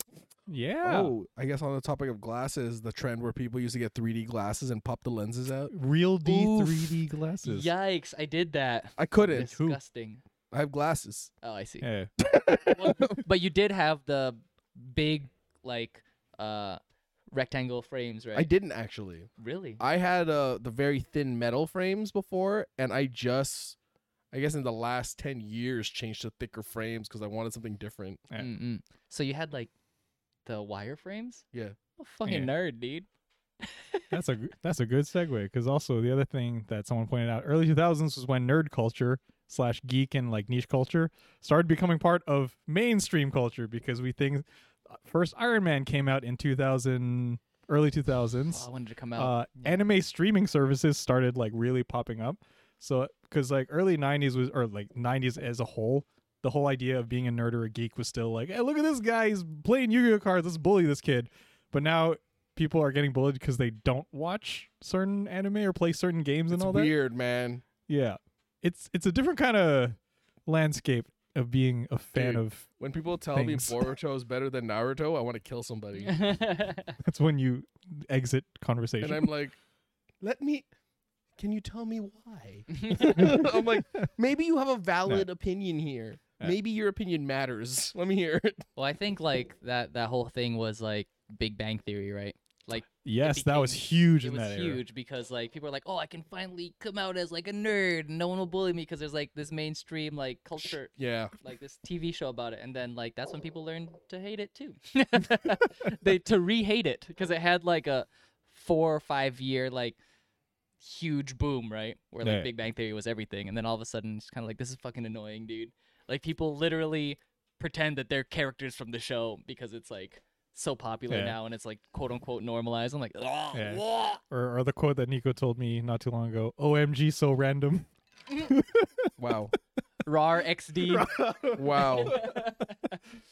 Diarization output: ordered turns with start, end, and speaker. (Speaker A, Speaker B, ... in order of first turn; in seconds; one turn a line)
Speaker A: 0.5-1.1
Speaker B: 0.8-5.7
Speaker A: 5.7-7.7
Speaker C: 6.2-10.2
Speaker B: 9.0-9.5
Speaker A: 9.3-9.8
Speaker B: 10.5-11.3
Speaker C: 11.4-11.9
Speaker A: 11.8-12.1
Speaker B: 12.2-13.2
Speaker C: 12.7-16.8
Speaker C: 17.3-18.5
Speaker B: 18.3-23.8
Speaker C: 19.4-19.8
Speaker B: 24.3-28.2
Speaker C: 28.4-29.7
Speaker C: 30.4-31.4
Speaker C: 32.0-33.1
Speaker A: 32.2-32.5
Speaker C: 33.6-34.1
Speaker A: 34.1-66.9
Speaker C: 48.5-49.7
Speaker B: 66.5-67.6
Speaker A: 67.9-72.7
Speaker B: 72.1-76.3
Speaker A: 73.3-73.8
Speaker C: 76.0-77.0
Speaker A: 77.0-79.3
Speaker B: 79.0-79.6
Speaker B: 80.2-80.7
Speaker B: 81.4-88.6
Speaker C: 82.7-83.4
Speaker A: 83.1-84.1
Speaker C: 88.8-110.0
Speaker A: 93.0-94.8
Speaker B: 100.6-101.3
Speaker C: 110.8-124.2
Speaker A: 112.2-112.5
Speaker A: 121.1-121.4
Speaker A: 123.5-129.1
Speaker B: 129.2-129.5
Speaker C: 130.0-133.0
Speaker A: 130.9-131.6
Speaker B: 131.5-132.2